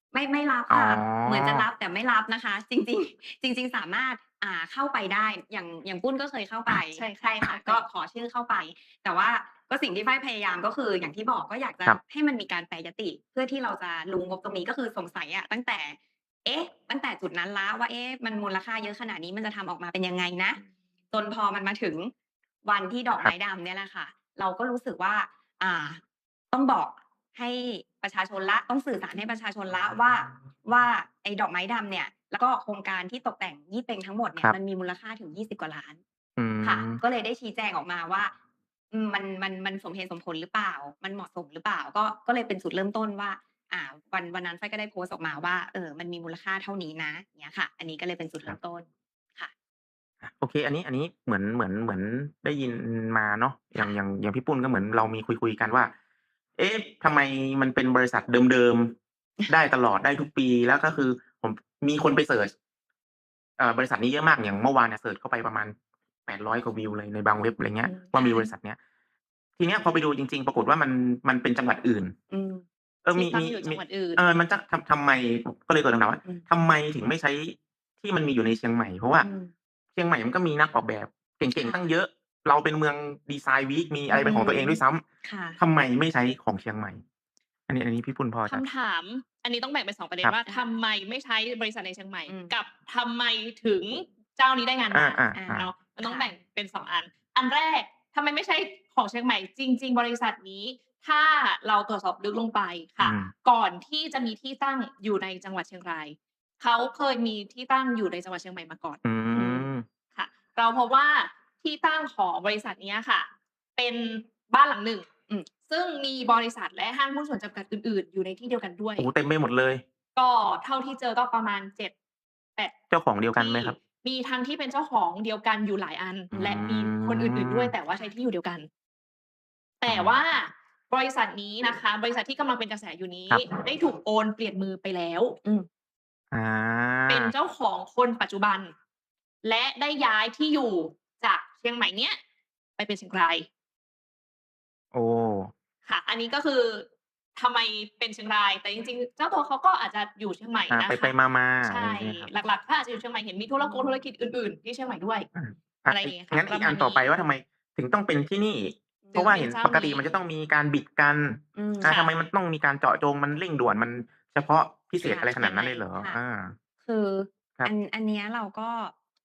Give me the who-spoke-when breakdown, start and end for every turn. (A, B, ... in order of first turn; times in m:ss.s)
0:00.1-0:20.6 A
0:00.7-0:01.7 B
0:06.9-0:07.8 C
0:21.1-0:22.1 A
0:22.6-0:26.0 A
0:26.5-0:36.0 A
0:36.4-0:37.0 B
0:36.6-0:38.3 A
0:38.9-0:49.5 A
0:50.2-0:55.9 B
0:56.6-0:58.9 B
0:59.5-1:02.5 B
1:03.6-1:05.8 B
1:06.2-1:08.8 B
1:07.8-1:08.4 C
1:08.2-1:08.5 A
1:09.6-1:12.1 B
1:12.3-1:12.6 A
1:13.0-1:19.3 B
1:13.1-1:14.2 C
1:19.2-1:19.5 A
1:20.0-1:25.0 B
1:21.6-1:21.9 A
1:24.1-1:25.6 A
1:25.6-1:27.0 B
1:27.7-1:28.6 B
1:28.5-1:49.6 C
1:32.3-1:32.5 A
1:34.9-1:35.7 B
1:35.3-1:36.3 A
1:43.0-1:43.3 B
1:49.0-1:49.8 B
1:50.2-1:55.1 C
1:55.7-1:59.1 C
1:59.0-1:59.8 B
2:00.2-2:01.9 C
2:02.9-2:03.8 B
2:03.3-2:08.7 C
2:06.3-2:07.7 B
2:07.9-2:08.2 A
2:09.8-2:15.4 C
2:09.9-2:10.2 B
2:16.3-2:17.3 B
2:17.1-2:18.7 C
2:19.4-2:22.2 C
2:22.8-2:23.5 C
2:24.9-2:25.5 B
2:25.8-2:35.3 C
2:30.7-2:32.3 B
2:33.6-2:34.0 A
2:35.3-2:46.6 B
2:35.9-2:37.1 C
2:39.0-2:39.3 A
2:39.1-2:40.2 C
2:41.5-2:41.9 A
2:41.8-2:42.1 C
2:45.0-2:46.2 A
2:46.8-2:48.9 A